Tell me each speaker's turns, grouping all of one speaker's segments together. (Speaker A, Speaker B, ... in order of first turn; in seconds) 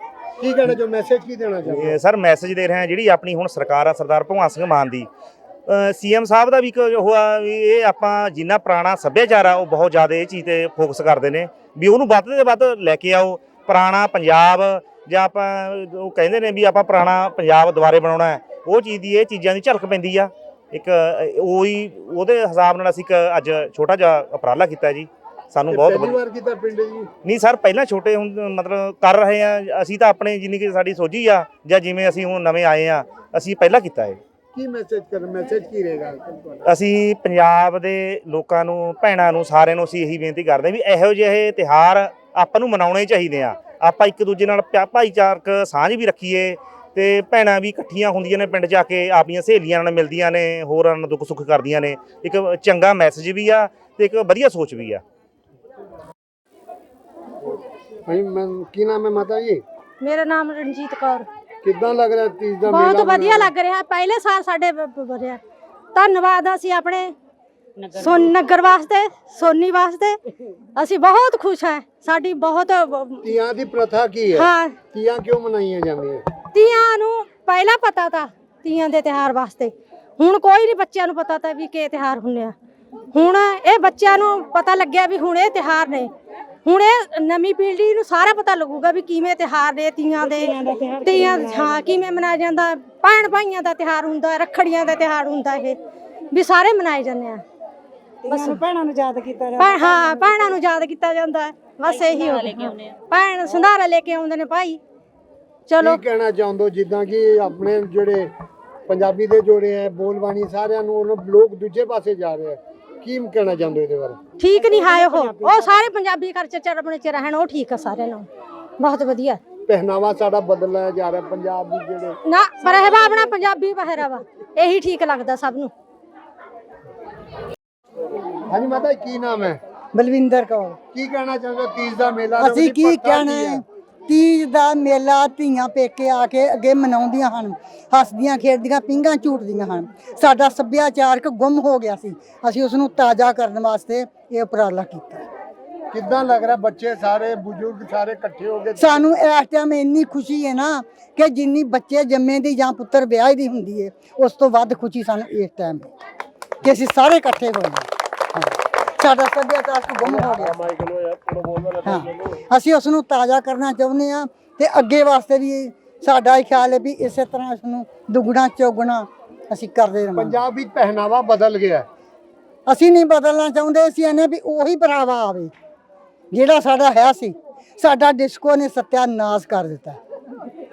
Speaker A: 0.4-2.0, 25.7-27.1, 34.5-36.7, 58.0-59.6, 61.6-63.5, 73.2-76.2, 105.8-108.3, 108.9-114.2, 119.7-122.2, 128.5-129.6, 130.9-133.6, 145.9-149.1, 170.2-171.8
Speaker B: 1.7-5.1, 5.7-26.2, 27.2-34.2, 36.7-55.0
Speaker C: 60.0-61.3, 62.7-65.4, 65.9-67.1, 67.9-70.2, 70.8-73.2, 74.3-74.7, 76.5-82.5, 83.1-86.1, 86.6-95.8, 96.3-97.4, 98.3-98.6, 99.5-104.8, 105.7-106.0, 114.4-118.3, 118.8-119.4, 122.2-125.7
Speaker D: 129.9-130.8, 132.4-145.2, 148.8-155.9, 156.6-160.6, 161.8-170.4, 172.7-175.5, 176.3-180.0
Speaker E: 160.0-162.3